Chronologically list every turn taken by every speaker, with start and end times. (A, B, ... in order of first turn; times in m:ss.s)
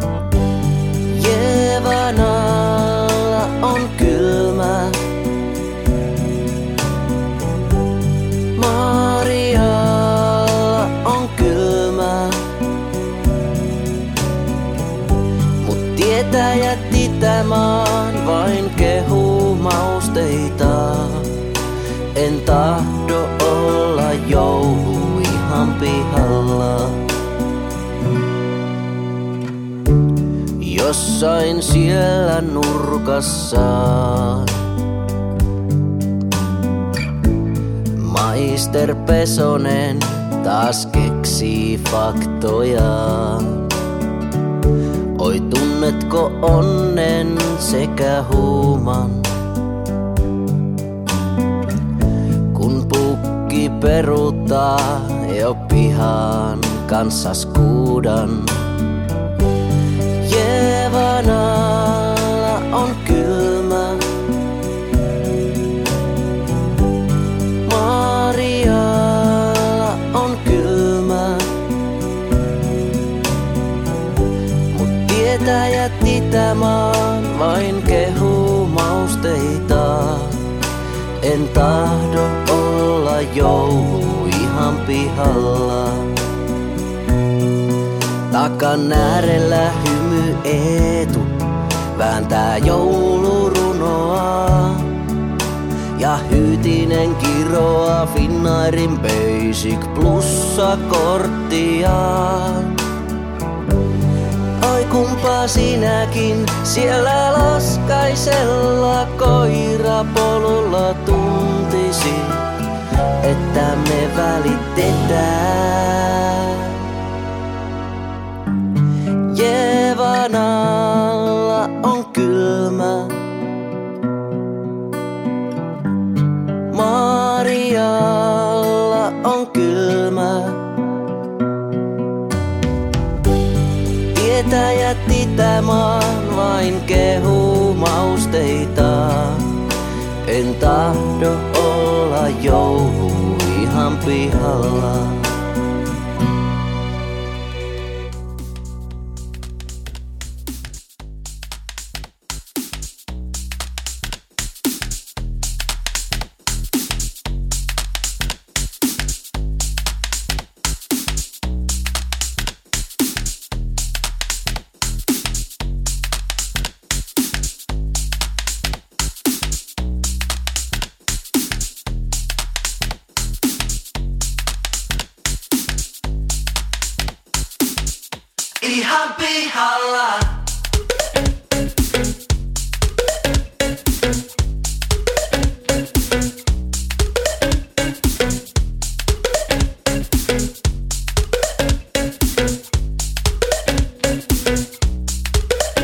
0:01.1-0:05.0 A
0:08.6-0:12.4 A
0:15.6-0:21.3 A
0:22.2-0:27.1 A
0:30.6-0:34.6 A
0:38.0-0:43.7 A
0:45.2-0:49.3 A
0:52.5-0:58.7 A
1:00.2-1:04.0 A
1:07.6-1:11.5 A
1:14.7-1:20.4 A
1:21.2-1:26.2 A
1:28.3-1:31.4 A
1:31.9-1:34.9 A
1:36.0-1:42.8 A
1:44.6-1:52.4 A
1:53.2-1:56.8 A
1:59.3-2:03.2 A
2:06.7-2:10.7 A
2:14.1-2:19.5 A
2:20.2-2:25.3 A
2:58.6-3:00.2 A